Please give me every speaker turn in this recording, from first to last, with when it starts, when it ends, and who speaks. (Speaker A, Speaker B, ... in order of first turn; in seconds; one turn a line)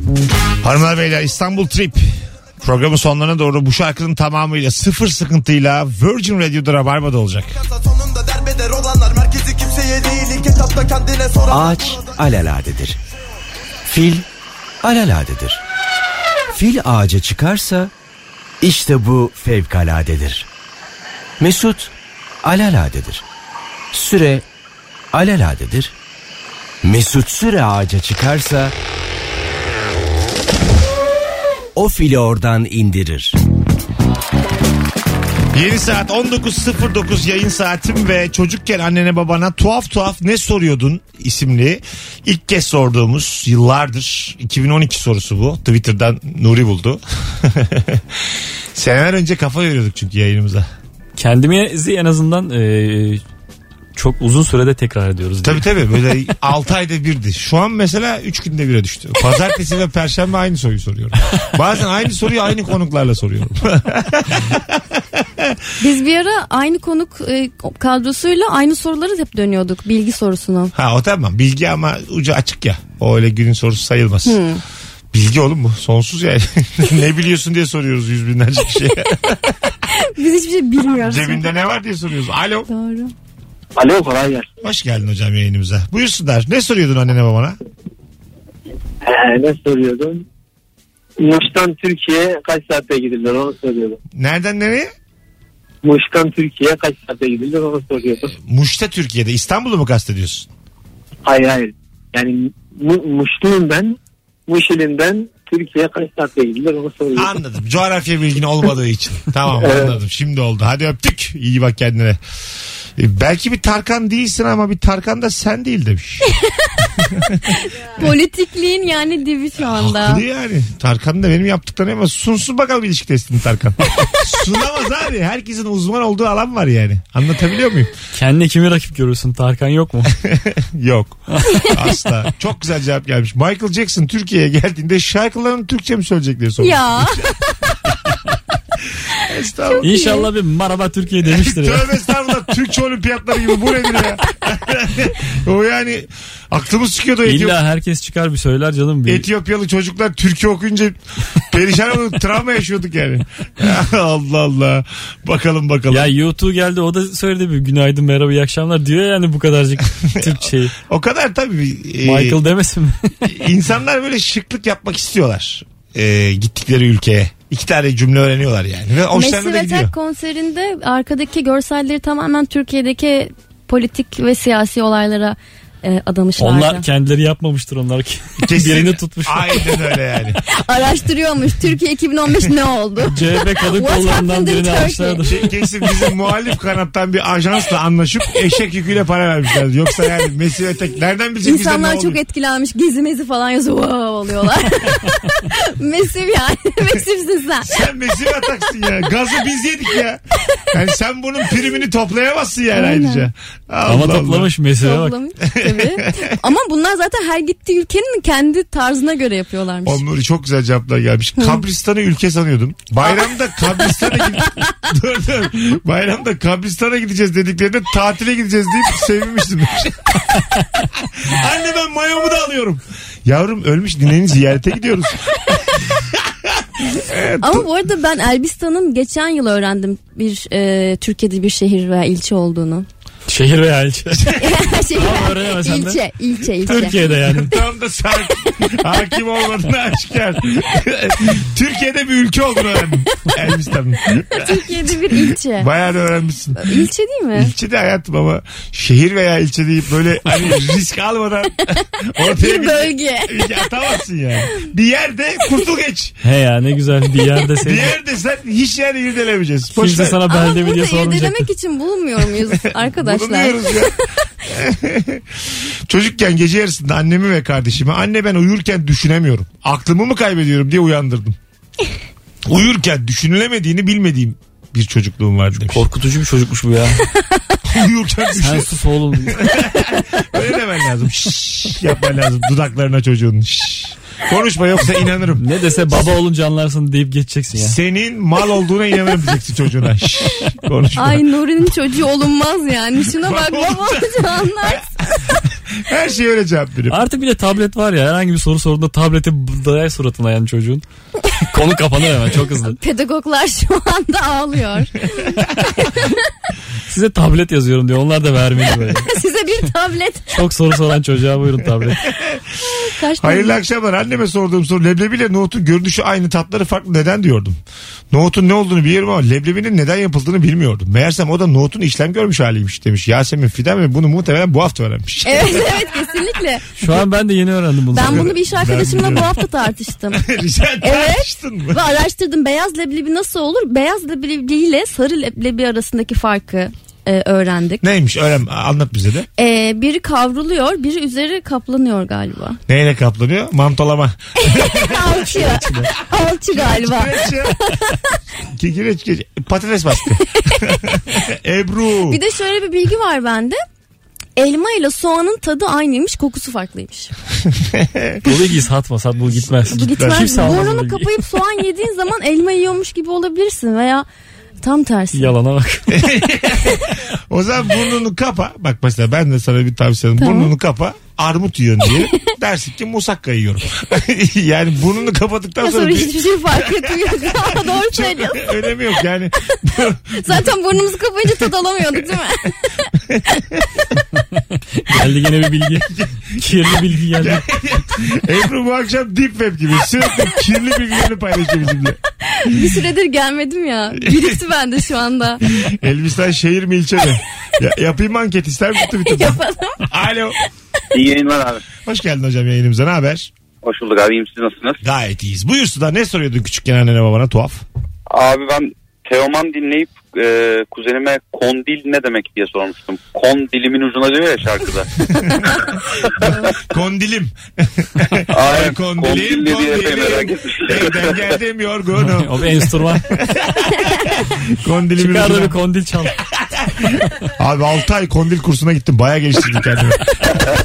Speaker A: 0.6-2.1
Speaker A: 2.6-7.6
Speaker B: 9.1-11.5
Speaker C: 10.7-11.4
Speaker D: 11.5-13.0
Speaker D: 13.9-14.3
Speaker D: 14.8-15.6
Speaker D: 16.5-17.9
Speaker D: 18.6-20.5
Speaker D: 21.4-23.2
Speaker D: 23.9-24.4
Speaker D: 25.1-25.9
Speaker D: 26.8-28.7
Speaker D: 31.8-33.4
Speaker A: 35.5-48.2
Speaker A: 48.8-50.7
Speaker E: 51.2-53.2
Speaker E: 54.0-55.7
Speaker A: 55.4-65.6
Speaker F: 65.8-70.7
Speaker A: 70.8-74.4
Speaker F: 74.2-74.6
Speaker A: 75.1-79.7
Speaker F: 79.9-81.5
Speaker A: 81.0-82.7
Speaker F: 82.7-83.1
Speaker D: 83.8-84.4
Speaker C: 83.8-84.5
Speaker A: 84.6-87.6
Speaker C: 89.1-90.2
Speaker C: 91.2-94.0
Speaker A: 94.1-94.9
Speaker C: 95.8-98.3
Speaker A: 98.3-100.5
Speaker D: 101.3-103.8
Speaker C: 101.3-103.9
Speaker C: 104.5-107.3
Speaker D: 104.5-105.5
Speaker A: 107.2-112.2
Speaker C: 109.6-109.9
Speaker A: 113.0-116.3
Speaker F: 117.8-120.2
Speaker A: 119.6-127.9
Speaker E: 128.1-130.1
Speaker A: 130.2-137.4
Speaker F: 136.6-137.3
Speaker A: 139.2-140.2
Speaker F: 139.7-140.3
Speaker E: 139.8-142.0
Speaker A: 141.2-147.6
Speaker E: 147.2-149.3
Speaker A: 149.1-156.1
Speaker E: 155.9-160.8
Speaker A: 160.2-162.4
Speaker E: 162.0-163.2
Speaker A: 163.2-169.9
Speaker F: 169.1-176.9
Speaker E: 176.4-179.5
Speaker A: 178.4-180.4
Speaker F: 180.5-185.3
Speaker E: 183.1-185.3
Speaker A: 185.3-192.2
Speaker F: 191.4-197.8
Speaker A: 197.6-204.5
Speaker F: 202.7-203.3
Speaker E: 203.8-205.2
Speaker F: 204.8-210.0
Speaker A: 205.4-206.4
Speaker A: 209.8-227.7
Speaker F: 227.4-232.9
Speaker E: 233.3-234.3
Speaker A: 234.1-234.5
Speaker F: 234.4-237.0
Speaker E: 235.0-236.0
Speaker E: 236.6-237.6
Speaker A: 236.9-256.2
Speaker F: 244.3-245.7
Speaker F: 246.6-247.5
Speaker F: 252.2-253.7
Speaker E: 256.2-257.9
Speaker A: 257.6-260.2
Speaker E: 259.8-261.5
Speaker F: 260.3-263.9
Speaker A: 262.5-271.4
Speaker A: 272.5-275.9
Speaker E: 275.6-277.1
Speaker A: 277.6-285.5
Speaker E: 278.4-279.7
Speaker E: 285.4-287.8
Speaker A: 287.6-291.2
Speaker F: 291.0-295.1
Speaker A: 293.1-297.0
Speaker E: 296.9-300.8
Speaker E: 301.5-302.8
Speaker F: 302.7-305.3
Speaker E: 305.6-305.9
Speaker E: 306.9-309.1
Speaker F: 309.1-310.3
Speaker E: 310.3-312.0
Speaker A: 312.1-312.5
Speaker F: 312.7-313.6
Speaker A: 313.2-317.6
Speaker A: 318.1-325.7
Speaker F: 325.3-326.7
Speaker E: 326.8-328.7
Speaker F: 327.9-330.2
Speaker A: 328.0-329.4
Speaker A: 330.1-331.8
Speaker F: 330.8-337.8
Speaker A: 337.8-339.3
Speaker F: 339.4-342.6
Speaker A: 342.7-345.3
Speaker F: 344.4-348.2
Speaker E: 345.2-345.9
Speaker A: 346.5-347.6
Speaker A: 348.5-352.2
Speaker F: 350.4-350.8
Speaker F: 352.1-353.6
Speaker F: 354.4-357.1
Speaker A: 357.6-358.3
Speaker E: 358.2-361.1
Speaker A: 359.3-360.8
Speaker F: 359.7-364.1
Speaker F: 364.6-365.3
Speaker E: 365.1-366.1
Speaker A: 365.9-380.5
Speaker F: 370.2-370.5
Speaker F: 375.6-378.5
Speaker F: 380.2-382.8
Speaker A: 383.0-383.7
Speaker E: 384.8-387.6
Speaker A: 385.9-392.8
Speaker F: 392.2-395.4
Speaker A: 393.9-394.4
Speaker A: 395.4-400.4
Speaker F: 399.0-399.9
Speaker G: 400.9-401.6
Speaker A: 401.8-403.3
Speaker G: 403.6-404.8
Speaker A: 404.8-407.6
Speaker G: 408.1-414.9
Speaker A: 415.1-425.6
Speaker G: 416.2-416.5
Speaker G: 418.3-421.3
Speaker E: 422.1-423.2
Speaker E: 425.0-426.2
Speaker A: 426.3-430.2